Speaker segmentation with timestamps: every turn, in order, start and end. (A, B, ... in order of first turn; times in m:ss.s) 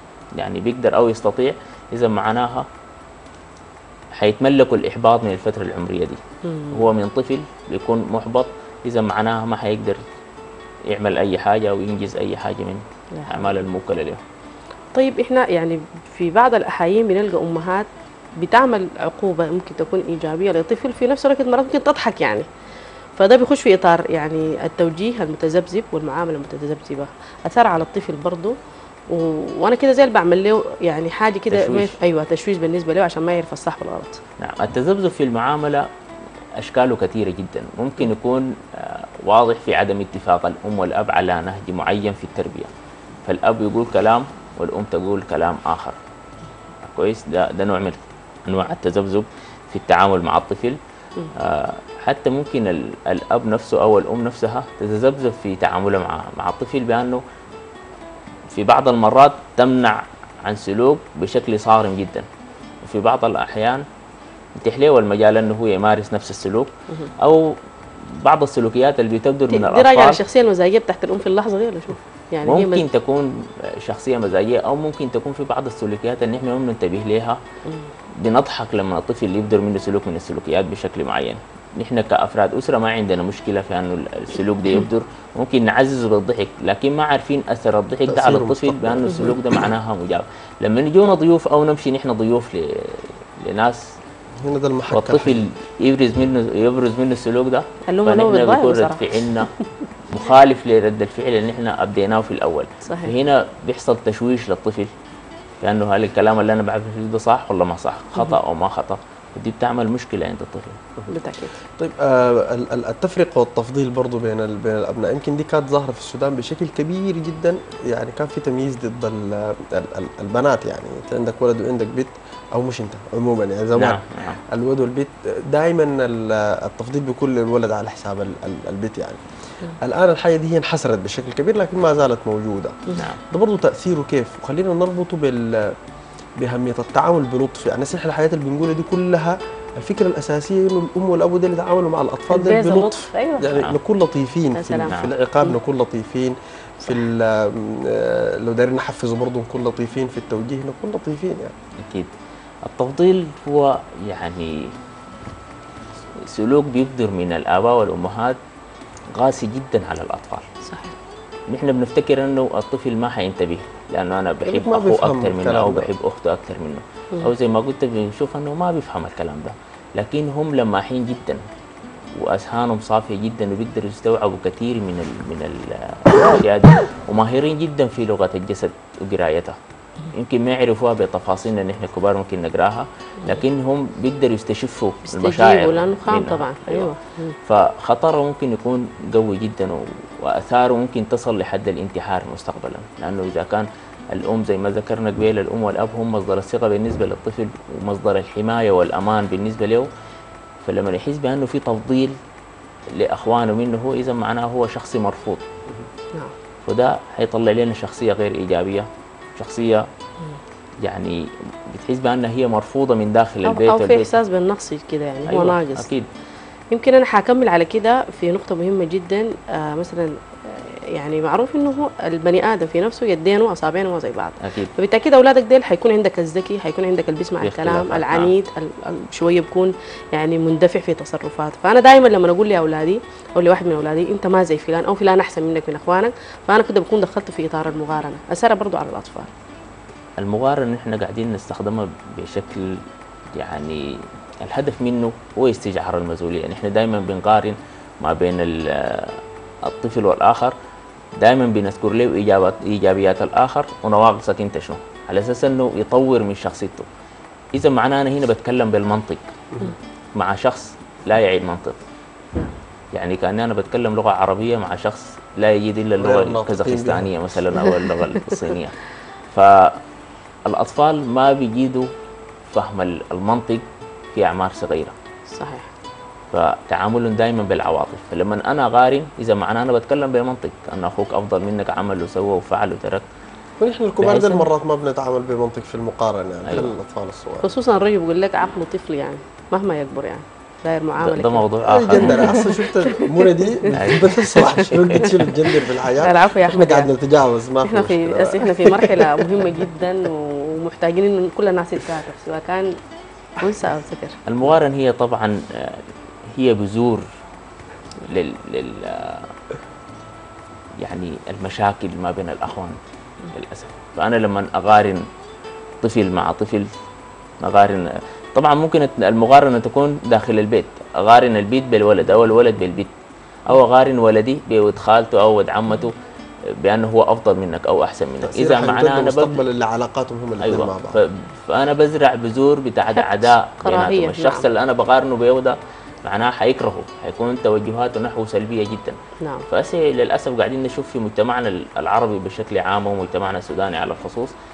0:00.4-0:02.7 A
0:04.2-0:06.2 A
0:06.4-0:06.9 B
0:06.7-0:10.0 A
0:10.9-0:14.2 A
0:13.2-0:13.6 B
0:15.0-0:17.9 B
0:18.4-0:22.5 B
0:23.2-0:28.5 B
0:29.1-0:34.2 B
0:31.5-0:32.0 A
0:34.4-0:35.9 A
0:36.6-0:42.7 A
0:43.2-0:46.0 A
0:46.8-0:50.8 A
0:51.4-0:57.2 A
0:58.5-1:02.2 A
1:02.8-1:03.8 A
1:04.6-1:07.5 A
1:08.1-1:10.2 A
1:09.5-1:12.8 B
1:12.4-1:17.4 A
1:18.2-1:34.0 A
1:28.1-1:29.4 C
1:34.4-1:35.4 C
1:34.9-1:39.5 A
1:37.9-1:39.6 B
1:40.1-1:44.9 A
1:42.8-1:43.1 B
1:45.6-1:50.8 A
1:51.1-1:51.6 B
1:51.8-2:09.2 C
2:03.8-2:04.4 A
2:09.8-2:15.7 C
2:13.0-2:13.2 A
2:16.4-2:31.5 C
2:22.3-2:23.5 B
2:23.5-2:23.8 A
2:24.6-2:25.6 B
2:24.9-2:25.1 A
2:31.8-2:34.7 A
2:36.2-2:38.4 A
2:39.2-2:40.4 A
2:40.6-2:41.0 B
2:41.5-2:51.4 A
2:44.4-2:45.9 C
2:52.2-2:59.6 A
3:00.1-3:06.9 A
3:05.1-3:07.4 B
3:07.5-3:19.9 A
3:20.6-3:22.2 A
3:23.0-3:25.4 A
3:26.6-3:29.9 A
3:30.8-3:34.2 A
3:33.4-3:35.9 B
3:35.3-3:36.1 A
3:36.7-3:59.3 B
3:44.4-3:44.7 A
3:47.4-3:48.3 A
4:00.2-4:02.8 A
4:03.3-4:03.8 A
4:04.4-4:10.5 A
4:11.2-4:16.9 A
4:17.5-4:19.2 A
4:20.2-4:21.8 A
4:22.9-4:28.8 A
4:26.0-4:27.1 C
4:27.6-4:28.4 B
4:29.3-4:29.8 A
4:30.5-4:31.9 A
4:32.5-4:33.6 A
4:34.2-4:34.9 A
4:35.3-4:35.7 B
4:36.3-4:43.0 A
4:43.6-4:47.5 C
4:44.0-4:44.5 A
4:46.5-4:46.7 A
4:47.4-4:51.4 B
4:51.0-4:52.4 A
4:51.6-4:59.6 C
4:52.0-4:54.1 B
4:53.7-4:55.3 A
4:55.5-4:56.9 B
4:57.6-5:02.7 B
5:03.4-5:04.2 B
5:04.3-5:05.8 A
5:06.4-5:07.0 A
5:08.0-5:09.3 A
5:10.8-5:12.8 A
5:13.3-5:15.0 A
5:15.8-5:16.7 A
5:17.4-5:22.9 A
5:23.5-5:25.9 A
5:26.6-5:29.4 A
5:28.2-5:31.0 C
5:30.4-5:39.0 A
5:33.0-5:34.5 B
5:39.2-5:39.4 B
5:39.5-5:44.3 A